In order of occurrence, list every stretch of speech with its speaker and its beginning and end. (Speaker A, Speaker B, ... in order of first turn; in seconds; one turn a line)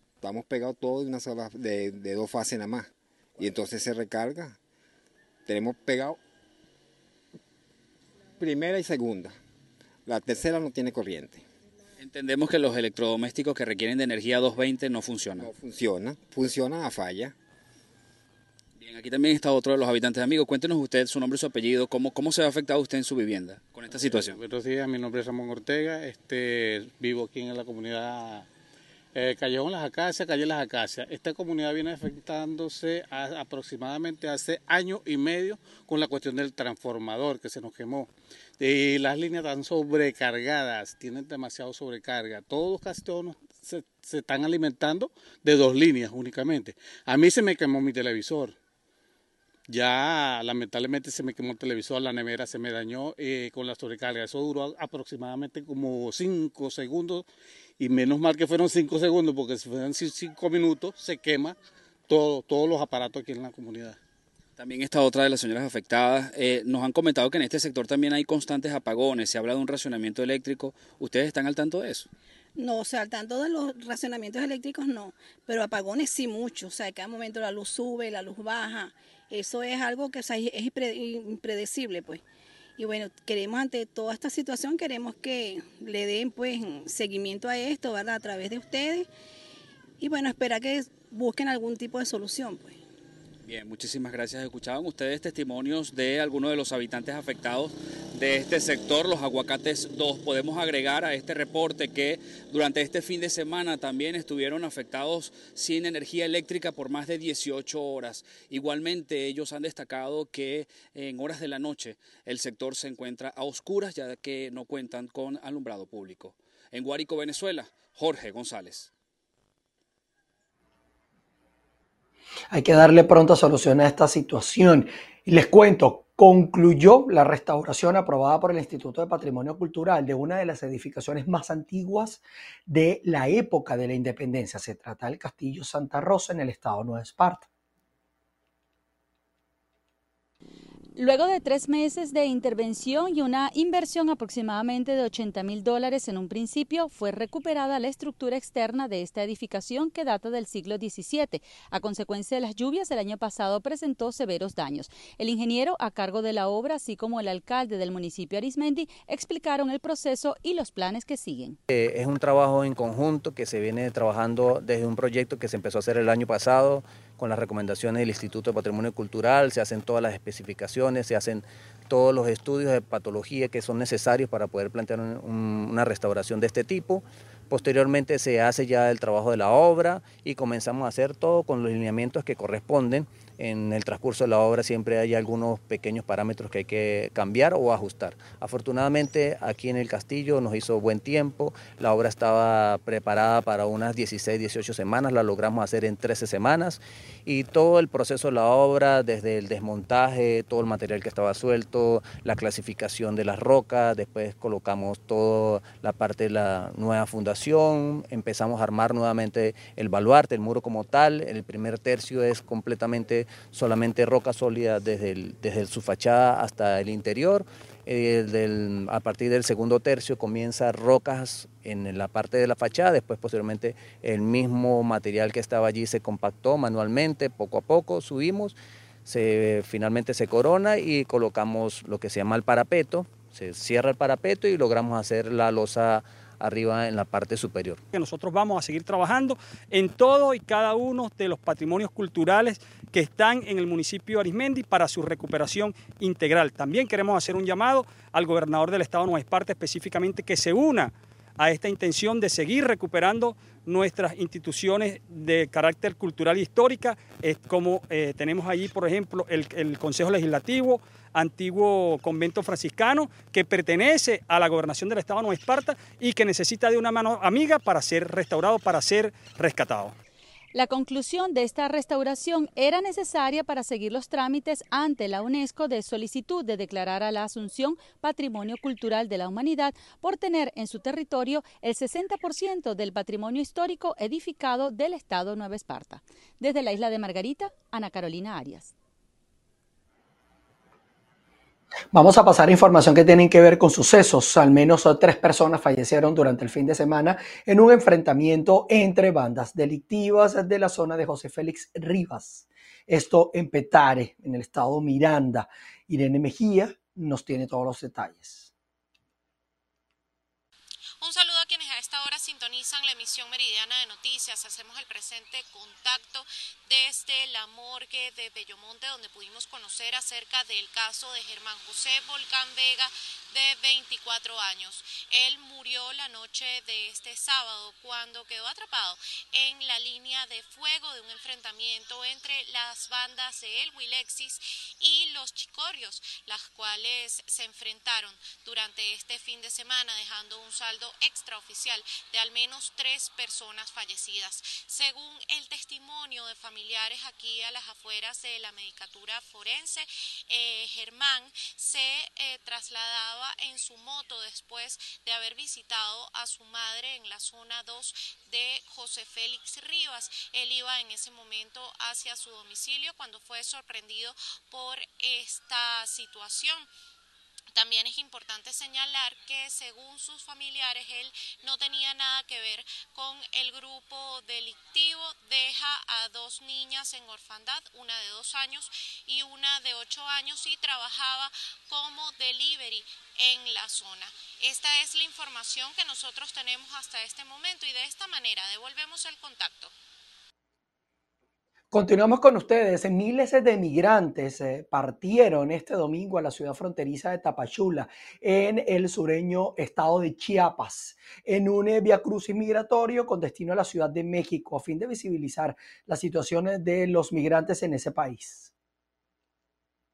Speaker A: 0.2-4.6
Speaker A: 5.5-6.2
Speaker A: 8.4-9.4
Speaker A: 10.1-11.4
Speaker B: 12.0-15.5
Speaker A: 15.4-17.3
Speaker B: 18.8-24.4
Speaker C: 23.9-28.5
Speaker C: 29.1-48.5
Speaker C: 49.7-57.2
Speaker C: 57.8-61.5
Speaker C: 62.1-64.0
Speaker B: 64.6-72.1
Speaker D: 72.6-82.2
Speaker D: 82.8-89.1
Speaker D: 90.0-92.8
Speaker B: 93.4-118.9
Speaker E: 122.5-137.5
Speaker F: 141.0-161.6
Speaker G: 161.7-228.5
Speaker G: 229.1-237.8
Speaker H: 237.9-269.9
Speaker F: 270.5-288.7
Speaker E: 291.9-308.5
Speaker I: 311.0-366.7
Speaker I: 367.5-389.7
Speaker E: 391.7-408.5